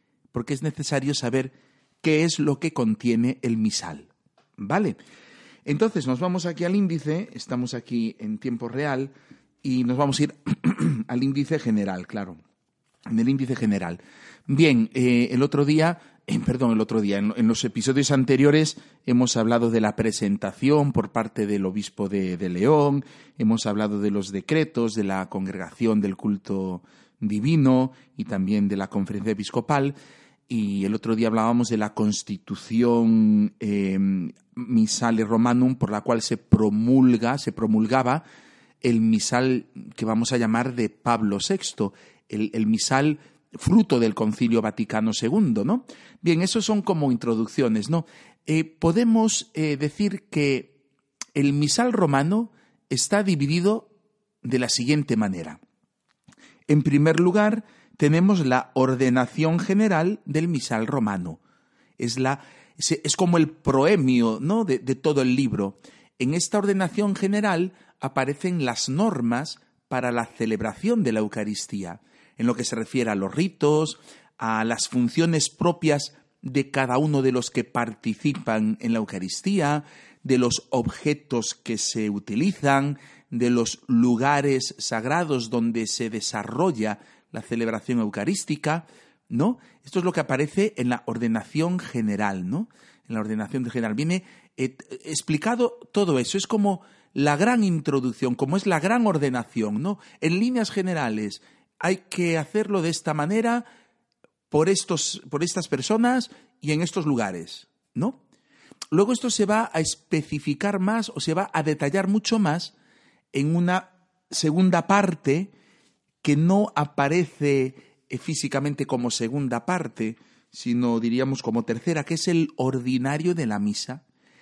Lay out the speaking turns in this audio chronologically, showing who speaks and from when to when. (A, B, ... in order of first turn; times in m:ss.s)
0:00.3-0:05.0 A
0:05.6-0:09.1 A
0:09.6-0:12.4 A
0:13.1-0:30.0 A
0:30.5-0:38.2 A
0:38.8-0:50.7 A
0:51.4-0:53.9 A
0:54.4-0:55.6 A
0:56.7-1:01.4 A
1:02.0-1:43.7 A
1:44.5-1:48.2 A
1:48.9-1:52.7 A
1:53.3-1:55.5 A
1:56.2-2:04.0 A